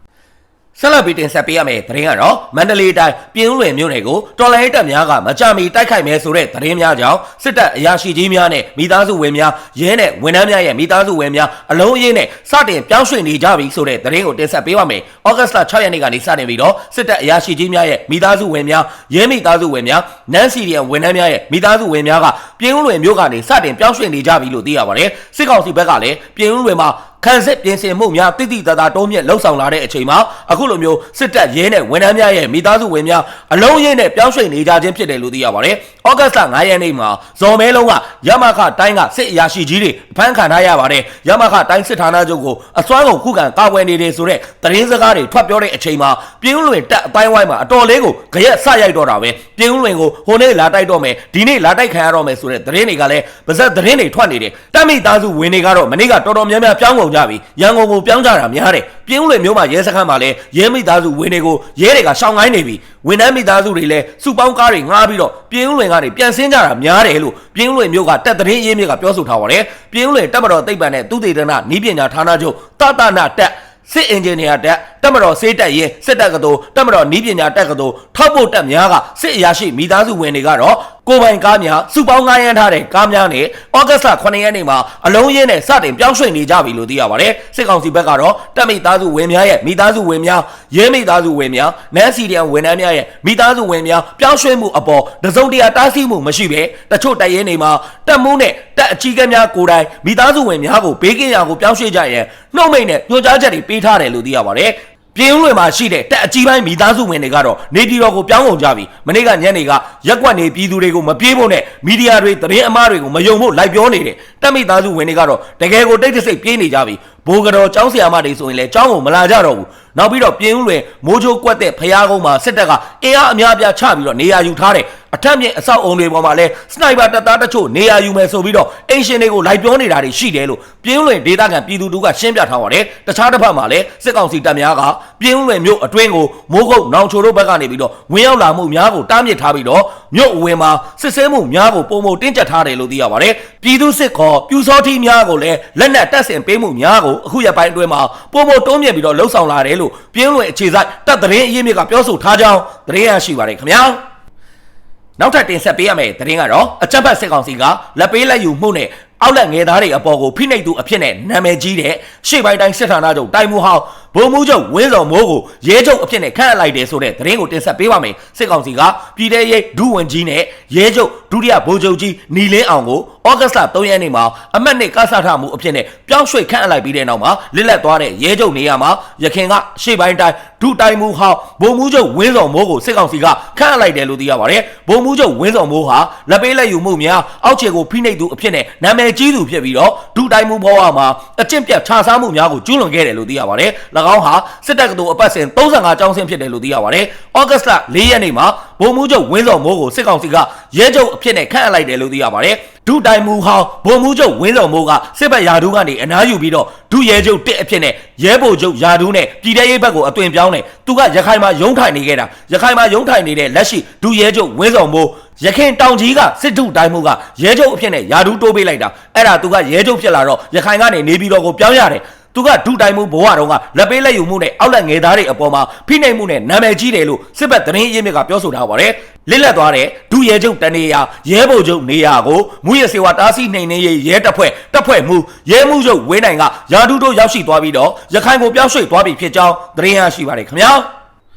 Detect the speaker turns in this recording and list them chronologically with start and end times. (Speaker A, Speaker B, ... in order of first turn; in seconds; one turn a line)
Speaker A: 0.7-154.0
Speaker A: 155.2-240.8